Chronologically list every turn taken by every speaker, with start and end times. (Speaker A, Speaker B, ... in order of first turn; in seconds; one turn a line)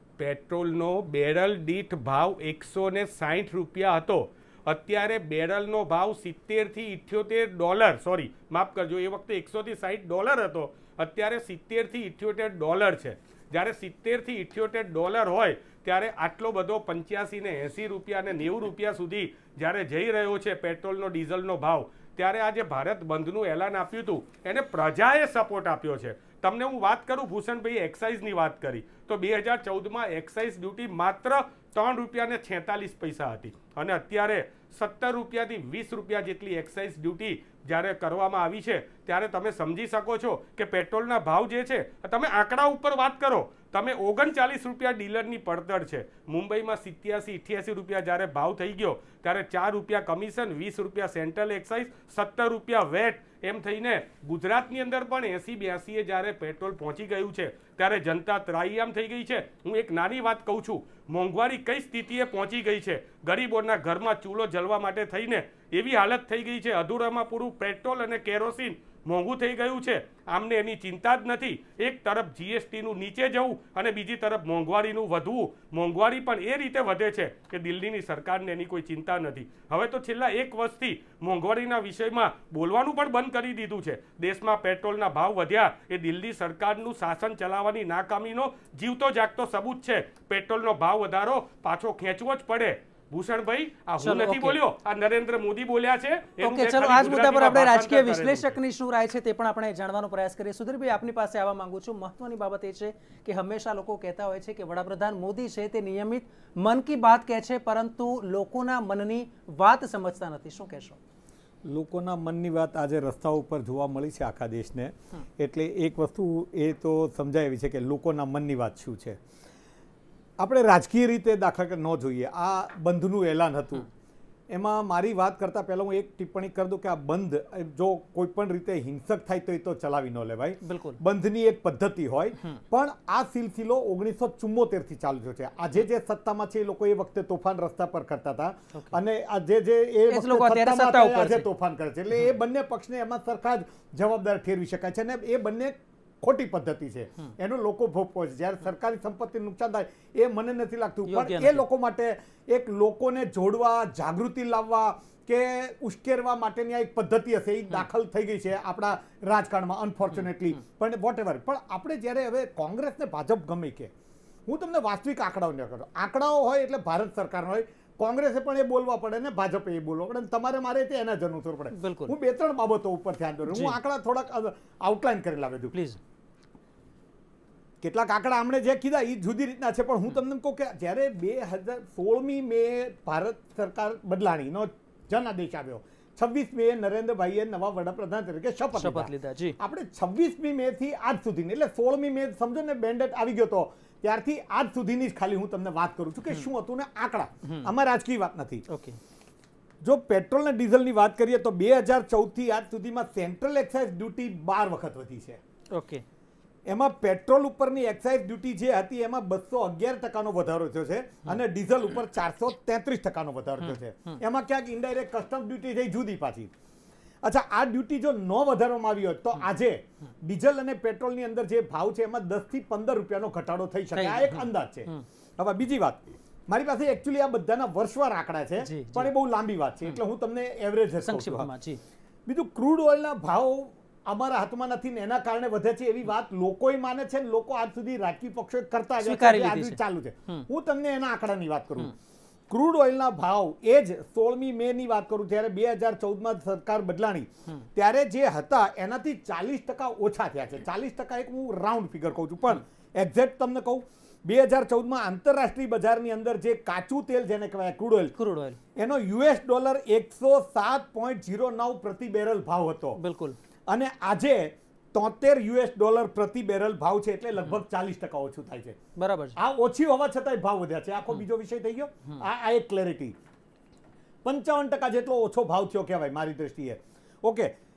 Speaker A: 0.2-98.6
Speaker B: 94.0-94.6
Speaker B: 96.4-111.0
Speaker C: 111.7-119.2
Speaker C: 120.4-123.8
Speaker C: 124.5-163.9
Speaker B: 130.6-131.0
Speaker B: 140.1-141.4
Speaker B: 151.0-151.6
Speaker C: 164.5-175.7
Speaker B: 171.7-172.1
Speaker B: 173.5-173.8
Speaker B: 175.7-176.0
Speaker C: 177.8-198.6
Speaker B: 188.7-189.6
Speaker B: 197.4-197.7
Speaker B: 198.7-199.0
Speaker C: 199.8-205.4
Speaker B: 205.7-206.0
Speaker C: 206.7-216.5
Speaker B: 213.6-214.2
Speaker C: 217.2-231.5
Speaker B: 223.9-225.0
Speaker B: 228.6-229.1
Speaker B: 231.0-231.8
Speaker C: 232.3-241.9
Speaker B: 239.0-240.5
Speaker C: 242.5-258.1
Speaker B: 258.1-258.6
Speaker C: 258.8-263.0
Speaker B: 262.9-263.4
Speaker C: 263.7-268.8
Speaker B: 269.0-269.4
Speaker C: 269.4-273.1
Speaker C: 274.2-277.5